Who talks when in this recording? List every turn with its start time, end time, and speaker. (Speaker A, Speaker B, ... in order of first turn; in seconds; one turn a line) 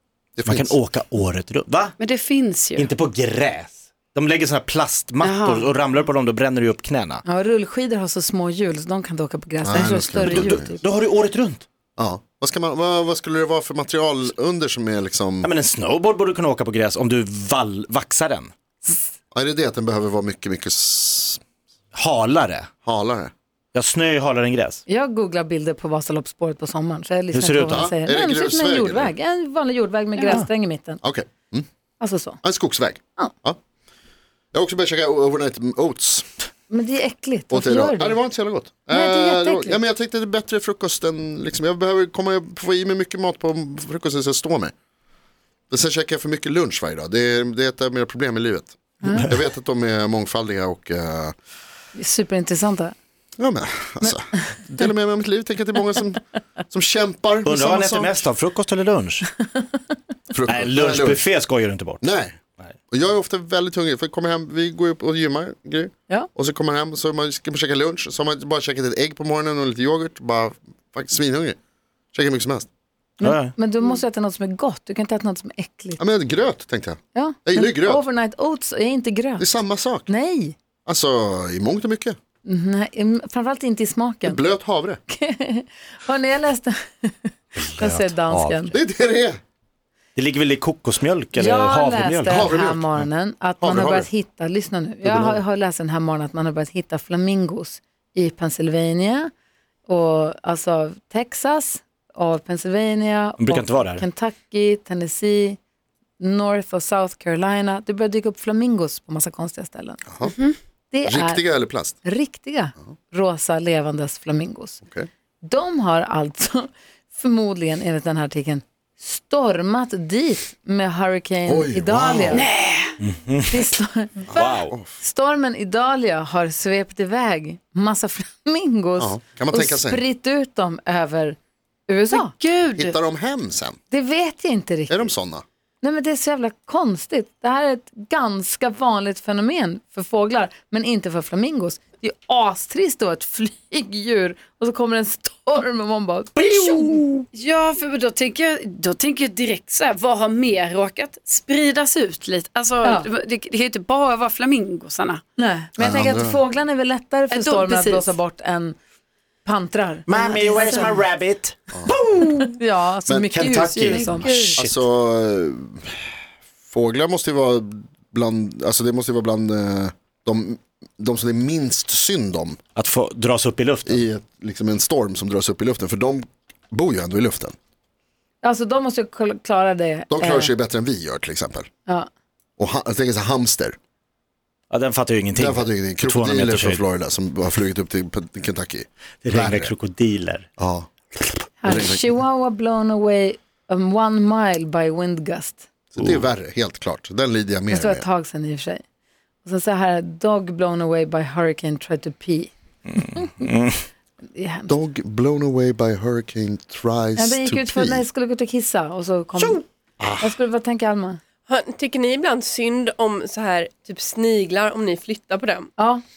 Speaker A: 0.4-0.8
Speaker B: 0.5-1.9
Speaker C: 2.0-2.9
Speaker B: 2.8-7.2
Speaker C: 5.2-5.7
Speaker D: 7.2-10.8
Speaker A: 9.6-10.8
Speaker B: 9.8-11.6
Speaker A: 12.0-15.5
Speaker B: 15.4-18.5
Speaker A: 19.3-21.4
Speaker B: 21.9-22.7
Speaker A: 22.8-23.3
Speaker B: 23.7-24.8
Speaker D: 24.9-31.0
Speaker B: 27.3-27.9
Speaker A: 27.7-29.1
Speaker C: 30.2-30.5
Speaker A: 31.0-31.7
Speaker D: 32.0-32.4
Speaker A: 32.4-33.6
Speaker A: 34.5-36.3
Speaker D: 36.7-38.2
Speaker A: 37.5-44.7
Speaker D: 38.9-39.8
Speaker A: 45.7-51.3
Speaker D: 49.0-49.3
Speaker D: 52.0-52.9
Speaker A: 53.4-58.3
Speaker B: 57.5-59.3
Speaker A: 60.3-61.2
Speaker B: 60.5-62.0
Speaker A: 62.0-62.4
Speaker A: 62.9-71.6
Speaker A: 72.1-72.7
Speaker D: 73.2-76.0
Speaker B: 73.2-73.5
Speaker A: 76.0-78.0
Speaker D: 77.1-79.5
Speaker A: 79.4-80.1
Speaker D: 80.1-80.6
Speaker A: 80.9-82.2
Speaker D: 82.5-84.4
Speaker A: 84.2-85.0
Speaker D: 85.1-88.7
Speaker B: 87.6-88.7
Speaker A: 88.7-89.4
Speaker B: 90.2-92.4
Speaker D: 91.4-99.3
Speaker A: 92.3-92.8
Speaker A: 93.6-94.1
Speaker A: 95.0-95.4
Speaker D: 99.9-105.6
Speaker B: 103.4-104.0
Speaker D: 106.2-110.0
Speaker A: 110.1-110.3
Speaker C: 110.2-110.6
Speaker D: 110.9-114.8
Speaker A: 111.1-112.0
Speaker A: 114.8-115.1
Speaker D: 115.4-122.5
Speaker A: 121.5-122.5
Speaker C: 122.3-122.9
Speaker B: 123.0-123.7
Speaker D: 123.5-124.3
Speaker A: 124.3-125.0
Speaker B: 124.3-124.7
Speaker D: 125.0-132.3
Speaker A: 129.0-130.0
Speaker C: 132.1-133.0
Speaker A: 132.8-133.8
Speaker D: 133.9-135.1
Speaker A: 134.9-135.4
Speaker D: 135.8-147.2
Speaker B: 146.4-147.0
Speaker C: 146.8-155.2
Speaker D: 155.4-158.8
Speaker A: 155.8-156.4
Speaker C: 157.3-158.2
Speaker D: 159.4-161.0
Speaker B: 160.1-162.5
Speaker D: 162.4-164.6
Speaker B: 163.3-164.8
Speaker C: 163.9-164.5
Speaker A: 164.6-165.9
Speaker A: 166.7-172.6
Speaker B: 172.8-174.0
Speaker A: 173.9-177.6
Speaker D: 178.4-180.5
Speaker A: 180.1-181.7
Speaker A: 182.6-183.8
Speaker B: 184.7-186.8
Speaker A: 185.3-189.7
Speaker B: 189.2-190.5
Speaker A: 190.6-190.9
Speaker D: 191.6-195.7
Speaker A: 191.6-192.1
Speaker A: 195.9-198.1
Speaker D: 197.7-198.8
Speaker D: 199.4-202.5
Speaker B: 202.9-203.8
Speaker D: 203.1-203.3
Speaker D: 204.3-204.8
Speaker A: 204.7-208.0
Speaker D: 207.2-209.6
Speaker A: 209.4-210.4
Speaker D: 210.2-211.2
Speaker E: 211.5-215.7
Speaker D: 215.8-216.0